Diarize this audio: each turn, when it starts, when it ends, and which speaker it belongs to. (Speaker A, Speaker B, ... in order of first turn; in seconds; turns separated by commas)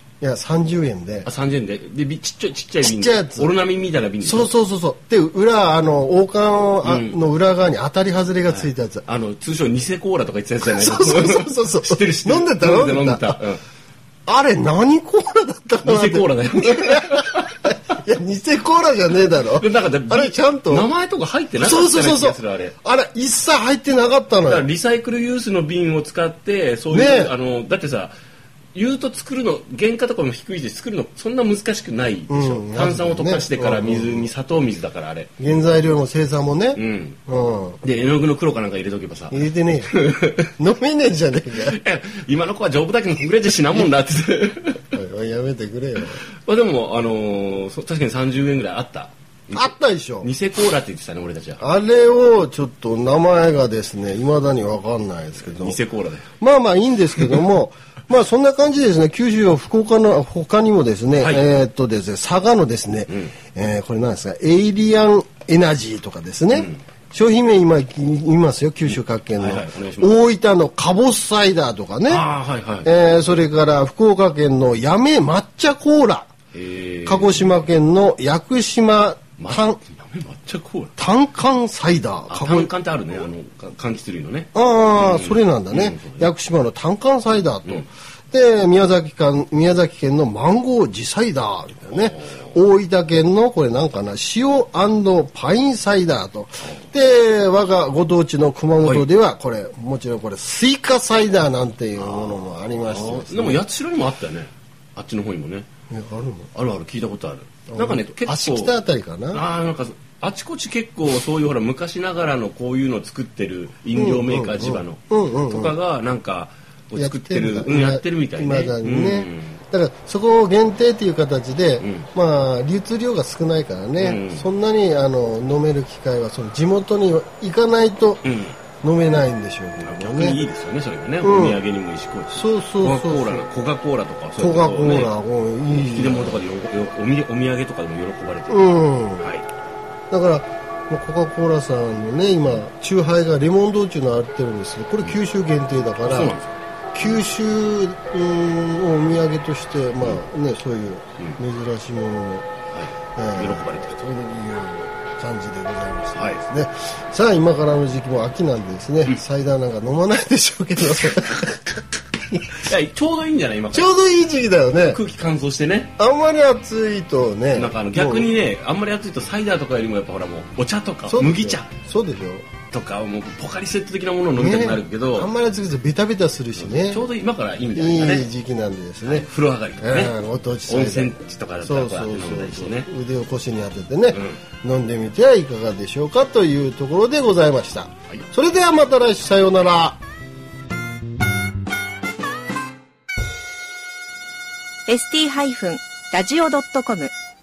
Speaker A: 0.2-1.3, Speaker B: 1.2-4.5, Speaker A: 2.8-3.5, Speaker A: 4.2-9.1, Speaker B: 6.8-7.2, Speaker B: 8.5-13.6, Speaker A: 10.6-13.4, Speaker A: 14.3-20.9, Speaker B: 15.8-17.6, Speaker B: 19.5-22.8, Speaker A: 21.5-24.7, Speaker B: 24.4-28.1, Speaker A: 26.9-27.3, Speaker B: 28.7-35.5, Speaker A: 32.3-34.3, Speaker A: 35.4-37.8, Speaker B: 36.7-40.5, Speaker A: 39.3-39.9, Speaker A: 40.6-41.8, Speaker B: 41.6-45.0, Speaker A: 44.9-46.2, Speaker B: 46.2-51.6, Speaker A: 49.5-50.3, Speaker A: 51.6-55.8, Speaker B: 55.4-56.3, Speaker A: 56.4-72.3, Speaker B: 61.2-61.5, Speaker B: 63.1-63.3, Speaker B: 66.5-66.8, Speaker B: 68.9-70.2, Speaker B: 72.0-72.9, Speaker A: 72.8-76.3, Speaker B: 76.5-77.6, Speaker A: 77.0-79.8, Speaker B: 79.4-81.0, Speaker A: 81.0-82.7, Speaker B: 82.3-86.3, Speaker A: 84.5-103.6, Speaker B: 91.9-92.5, Speaker B: 98.8-99.1, Speaker B: 102.0-105.7, Speaker A: 105.9-106.5, Speaker B: 106.5-108.8, Speaker A: 107.7-109.4, Speaker B: 109.3-119.6, Speaker A: 113.9-115.7, Speaker A: 117.0-128.2, Speaker B: 121.8-122.1, Speaker B: 124.0-124.5, Speaker B: 128.2-128.6, Speaker A: 128.8-130.4, Speaker B: 129.8-135.2, Speaker A: 131.2-131.6, Speaker A: 132.3-133.5, Speaker A: 134.4-136.4, Speaker B: 135.7-139.4, Speaker A: 138.5-139.3, Speaker A: 140.1-146.3, Speaker B: 146.0-147.2, Speaker A: 146.9-152.4, Speaker B: 152.7-154.0, Speaker A: 153.2-161.8, Speaker B: 156.2-156.4, Speaker B: 162.5-163.9, Speaker A: 163.7-165.0, Speaker B: 164.8-166.0, Speaker A: 166.0-168.3, Speaker B: 167.5-171.8, Speaker A: 171.1-172.4, Speaker B: 172.6-175.3, Speaker A: 174.3-177.1, Speaker B: 176.6-178.3, Speaker A: 177.7-190.0, Speaker B: 179.0-182.9, Speaker B: 184.1-184.4, Speaker C: 194.9-197.1